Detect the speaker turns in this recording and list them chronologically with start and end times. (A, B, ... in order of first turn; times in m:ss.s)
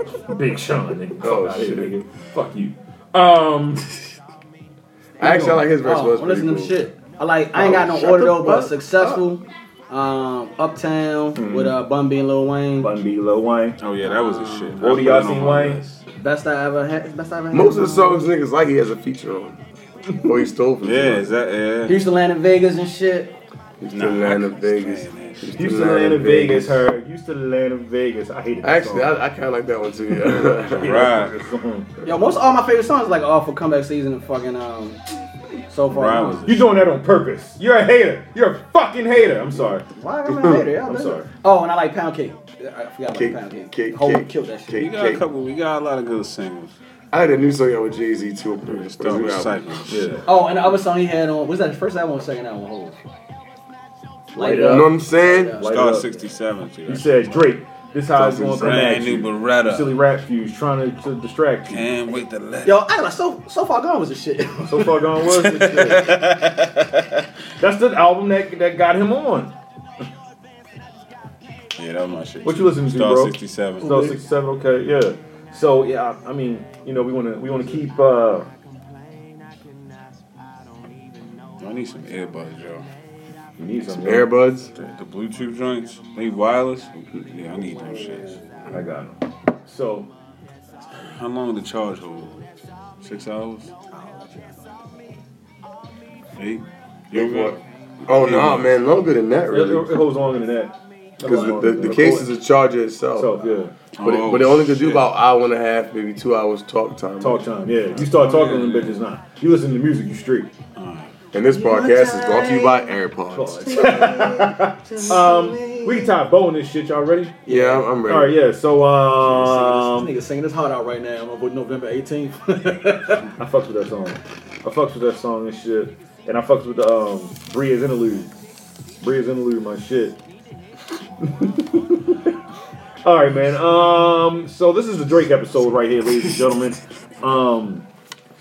0:00.3-0:03.9 A
0:01.2-0:01.9 B
0:05.2-0:06.8 B
0:05.2-0:05.7 A
0:05.8-0:12.9 C
0:07.5-0:09.2 B
0:11.3-0:11.7 A
0:12.8-0:13.8 A
0:13.8-0:16.0 D
0:14.8-0:15.8 A
0:16.1-0:18.2 C
0:17.5-0:19.6 B
0:20.2-0:21.3 B
0:20.8-0:22.0 D
0:21.8-0:23.3 C
0:23.8-0:26.8 B
0:23.9-0:25.5 D
0:25.5-0:29.2 A
0:28.6-0:31.0 B
0:30.8-0:31.9 A
0:30.8-0:31.3 D
0:32.0-0:35.0 C
0:35.7-0:36.5 C
0:35.9-0:36.6 D
0:36.4-0:39.8 A
0:39.9-0:44.8 C
0:40.8-0:41.3 A
0:43.1-0:45.2 B
0:44.8-0:46.7 D
0:47.1-0:49.8 B
0:48.6-0:50.2 D
0:49.9-0:50.2 A
0:50.2-0:53.0 C
0:54.4-0:54.9 A
0:54.4-0:55.7 C
0:54.6-0:55.6 B
0:55.6-0:56.2 A
0:55.6-0:57.4 D
0:56.8-1:01.9 A
0:58.2-0:58.8 B
0:58.2-1:00.0 D
1:01.6-1:02.8 D
1:02.6-1:04.9 C
1:04.6-1:06.1 A
1:05.2-1:06.8 D
1:07.6-1:09.5 A
1:11.8-1:14.0 D
1:12.4-1:18.5 A
1:21.6-1:22.8 D
1:23.6-1:24.4 A
1:23.9-1:24.7 B
1:24.7-1:28.5 D
1:28.7-1:30.1 A
1:31.0-1:32.4 D
1:33.0-1:33.7 D
1:36.4-1:37.6 D
1:37.1-1:40.0 B
1:38.1-1:38.8 D
1:39.5-1:42.3 A
1:41.2-1:47.7 B
1:43.1-1:43.8 A
1:43.9-1:45.0 D
1:47.2-1:50.5 A
1:47.9-1:49.0 D
1:50.8-1:51.1 D
1:51.3-1:54.0 B
1:51.5-1:52.8 C
1:53.3-1:57.4 A
1:53.6-1:56.1 C
1:57.4-1:57.9 C
1:57.5-1:58.4 B
1:58.0-2:00.1 A
1:59.2-2:03.2 C
2:03.4-2:08.3 A
2:09.0-2:10.2 A
2:11.2-2:12.2 A
2:13.0-2:17.8 A